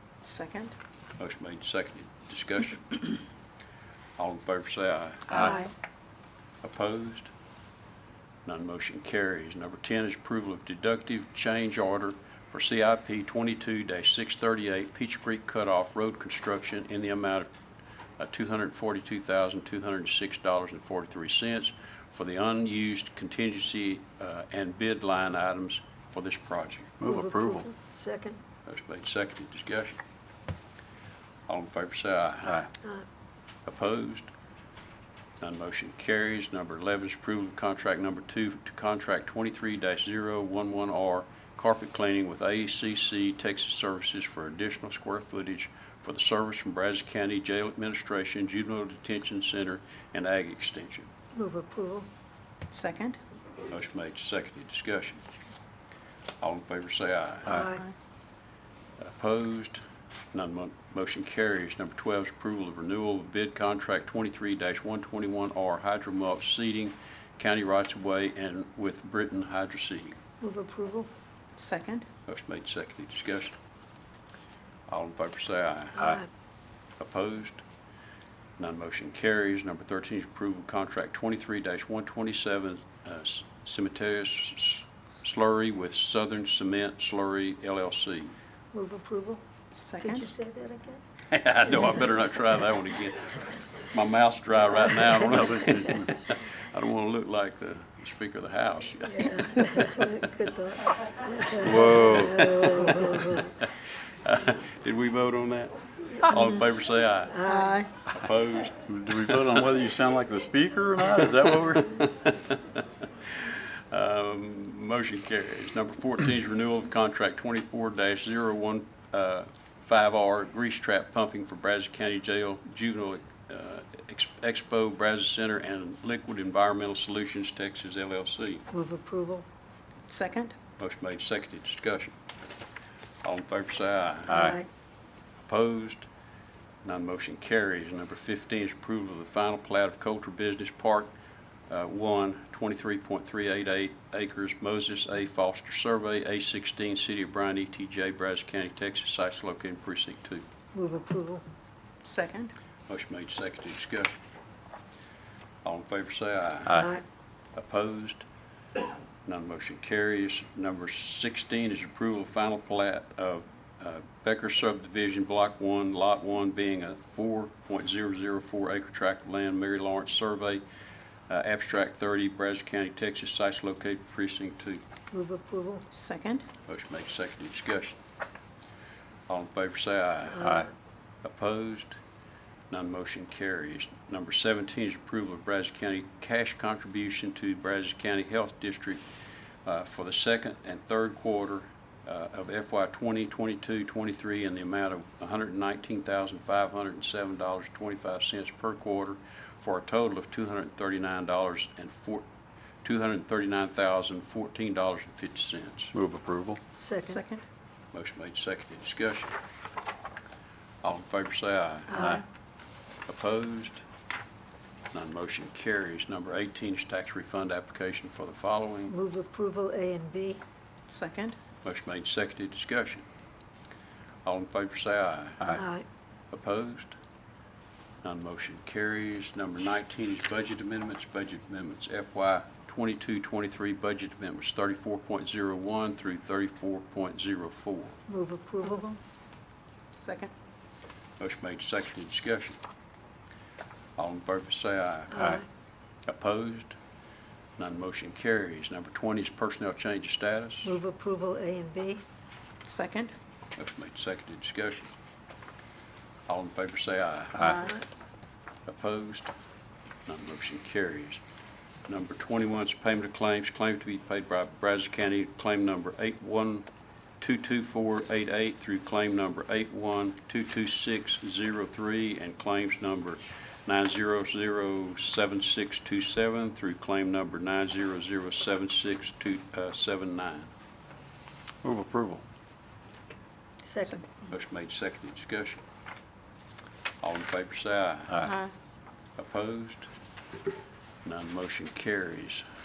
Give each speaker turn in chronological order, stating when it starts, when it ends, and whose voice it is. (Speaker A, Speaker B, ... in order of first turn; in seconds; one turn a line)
Speaker A: 0.2-0.7
Speaker B: 1.2-3.0
Speaker B: 4.2-5.7
Speaker C: 5.3-5.6
Speaker B: 6.6-7.3
Speaker B: 8.4-17.5
Speaker B: 18.2-27.0
Speaker D: 27.0-27.7
Speaker C: 27.0-28.4
Speaker B: 28.6-30.0
Speaker B: 31.5-32.7
Speaker B: 33.6-34.3
Speaker B: 35.4-51.1
Speaker C: 51.3-52.1
Speaker A: 52.7-53.2
Speaker B: 53.7-55.2
Speaker B: 56.4-57.7
Speaker C: 57.5-57.8
Speaker B: 59.0-59.8
Speaker B: 60.3-70.2
Speaker C: 70.4-71.1
Speaker A: 71.6-72.0
Speaker B: 72.2-73.5
Speaker B: 74.9-76.2
Speaker B: 77.0-77.6
Speaker B: 78.6-88.3
Speaker C: 88.7-89.4
Speaker A: 89.7-90.3
Speaker C: 90.0-91.0
Speaker B: 91.3-100.1
Speaker C: 99.1-103.5
Speaker B: 101.6-107.4
Speaker D: 101.6-102.5
Speaker A: 106.3-106.6
Speaker C: 107.3-107.8
Speaker A: 107.4-107.9
Speaker B: 108.0-109.8
Speaker D: 108.9-111.8
Speaker B: 111.1-128.7
Speaker C: 128.7-129.4
Speaker A: 130.1-130.5
Speaker B: 130.8-132.1
Speaker B: 133.2-134.6
Speaker C: 134.3-134.7
Speaker B: 135.4-136.1
Speaker B: 136.8-141.1
Speaker B: 141.7-150.4
Speaker C: 150.7-151.4
Speaker A: 152.0-152.5
Speaker B: 152.9-154.2
Speaker B: 155.6-156.9
Speaker C: 156.7-157.0
Speaker B: 157.5-158.2
Speaker B: 159.2-170.6
Speaker B: 171.3-174.8
Speaker C: 175.1-175.8
Speaker A: 175.9-176.4
Speaker B: 176.7-178.0
Speaker B: 179.3-180.7
Speaker B: 181.2-182.0
Speaker B: 182.7-189.0
Speaker B: 189.6-202.2
Speaker B: 202.8-205.9
Speaker D: 205.9-206.6
Speaker C: 206.8-207.2
Speaker A: 207.0-207.4
Speaker B: 207.9-209.3
Speaker B: 210.8-212.2
Speaker B: 213.1-213.8
Speaker B: 214.9-218.9
Speaker C: 218.9-220.4
Speaker A: 220.9-221.3
Speaker B: 221.6-223.0
Speaker B: 224.2-225.6
Speaker C: 225.5-225.8
Speaker B: 226.3-226.9
Speaker B: 228.0-238.0
Speaker C: 238.1-238.9
Speaker A: 238.7-238.9
Speaker A: 240.0-240.3
Speaker B: 241.2-242.6
Speaker B: 244.0-245.4
Speaker C: 245.2-245.4
Speaker B: 246.1-246.8
Speaker B: 247.6-250.8
Speaker C: 250.6-252.0
Speaker A: 252.6-253.1
Speaker B: 253.6-254.9
Speaker B: 256.3-257.7
Speaker A: 257.4-257.8
Speaker B: 258.6-259.3
Speaker B: 260.1-261.2
Speaker B: 261.9-266.6
Speaker B: 267.2-280.5
Speaker D: 281.6-282.2
Speaker C: 283.6-284.0
Speaker B: 284.3-285.6
Speaker B: 287.0-288.3
Speaker A: 288.2-288.5
Speaker B: 289.2-289.9
Speaker B: 291.0-292.4